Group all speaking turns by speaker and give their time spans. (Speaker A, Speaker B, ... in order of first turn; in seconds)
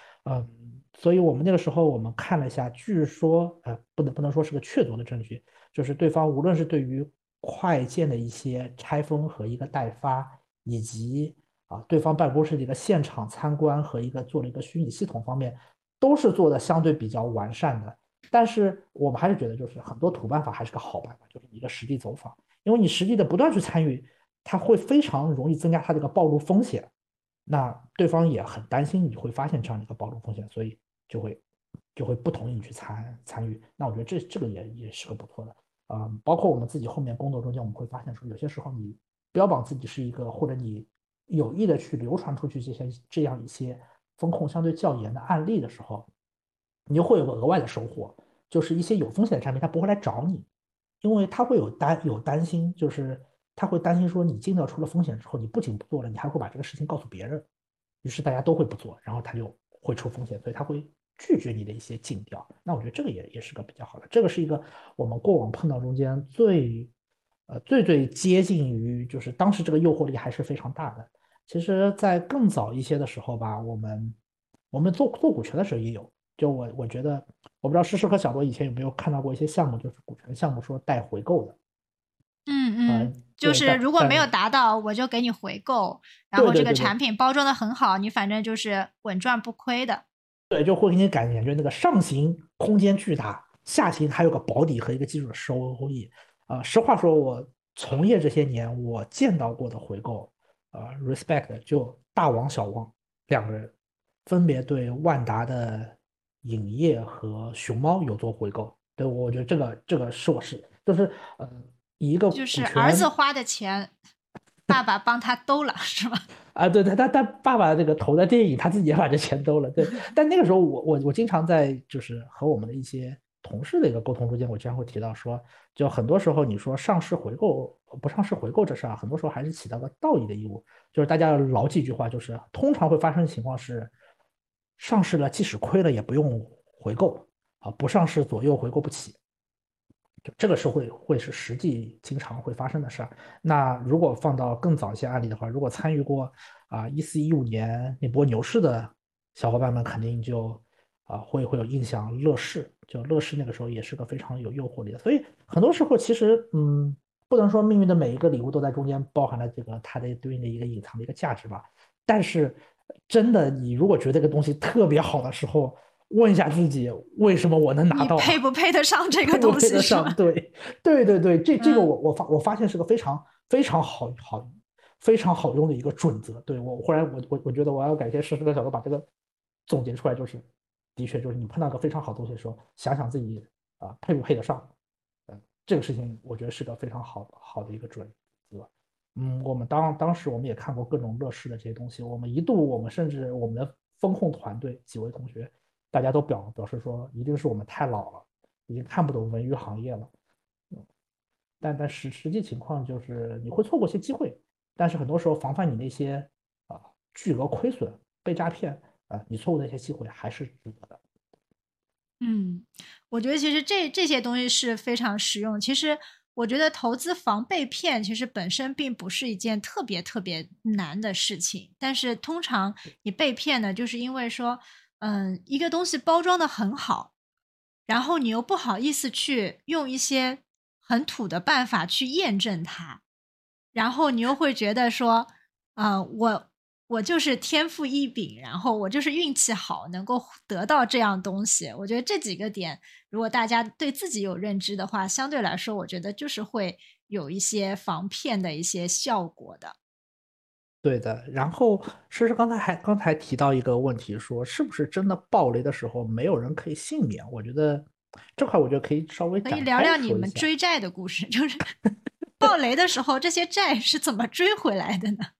Speaker A: 0.2-26.9, 27.5-31.4, 31.9-46.1, 46.9-50.5, 51.0-57.4, 58.0-66.9, 67.5-74.2, 74.7-81.5, 82.9-84.3, 86.3-86.9, 90.5-103.7, 104.2-113.1, 116.5-133.9, 134.8-139.2, 140.2-162.6, 163.1-168.4, 169.2-179.0, 179.7-184.7, 185.3-200.1, 201.6-211.0, 250.8-260.5
Speaker B: 82.5-90.0, 112.3-113.9, 114.7-116.2, 167.9-170.2, 171.6-171.9, 212.2-227.1, 227.9-233.0, 233.7-249.7, 259.4-261.7, 262.4-265.3